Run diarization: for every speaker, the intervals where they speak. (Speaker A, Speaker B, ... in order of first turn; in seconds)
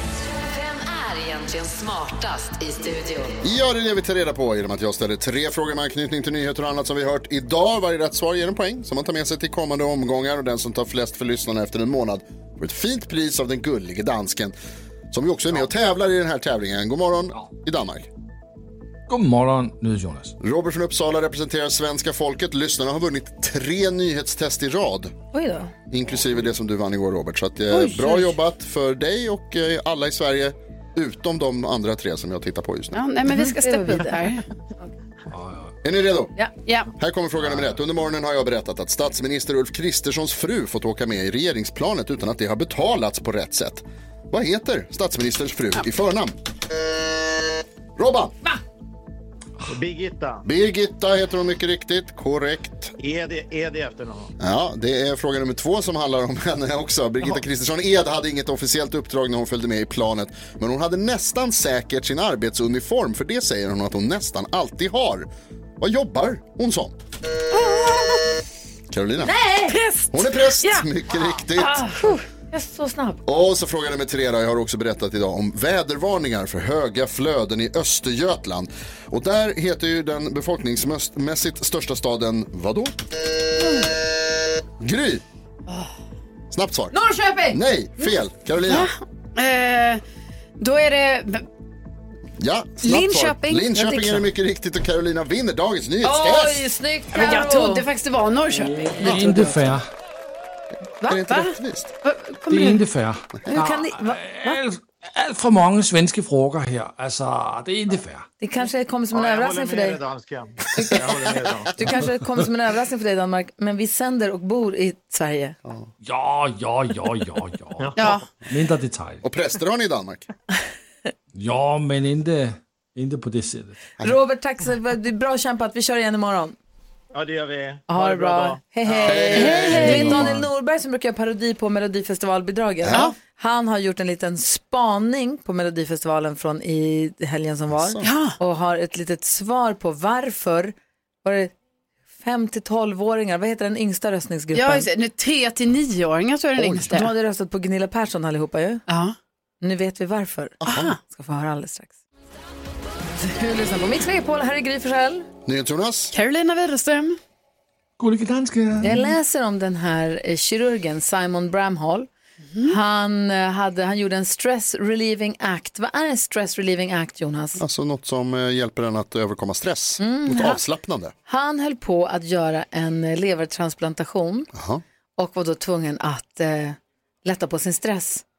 Speaker A: 0.4-3.5
Speaker B: 3.4-14.5, 15.1-18.1, 20.4-25.1, 25.9-33.0, 35.8-36.3, 37.0-46.4, 48.0-48.4, 50.4-52.9, 54.4-65.3, 65.8-67.0, 68.9-69.5, 70.1-71.8, 73.2-82.9, 84.8-85.2, 86.5-87.0, 87.5-88.9, 92.4-96.7, 99.0-99.3, 101.0-101.9, 119.2-120.3, 129.1-130.5, 132.8-133.2, 137.7-138.1, 146.6-146.9, 150.6-150.9, 155.5-156.1, 167.6-171.1, 174.5-174.8
Speaker C: 19.1-20.4, 35.3-35.8, 37.4-37.8, 98.5-99.8, 102.5-108.3, 116.0-119.2, 121.3-123.8, 158.0-159.2
Speaker D: 25.3-25.7, 27.7-28.3, 33.3-34.9, 69.2-70.1, 71.5-73.2, 86.9-87.6, 96.0-97.8, 99.3-99.6, 101.0-101.3, 103.5-104.6, 108.4-110.0, 110.8-111.1, 111.8-115.6, 124.0-126.6, 127.9-141.5, 142.2-144.9, 146.9-148.8, 149.6-151.9, 153.2-155.3, 158.8-162.1, 162.6-167.6, 170.0-170.6, 171.3-174.5, 175.2-178.2
Speaker E: 32.9-34.4, 67.5-68.2, 88.7-90.0, 90.6-91.5, 92.8-94.3, 97.1-99.3, 101.1-102.8, 118.0-118.2, 138.0-138.4, 144.5-147.1, 148.9-149.2, 150.7-151.0, 156.1-157.2
Speaker F: 49.7-50.5, 53.0-54.3, 109.1-111.9, 117.8-118.1, 127.1-130.3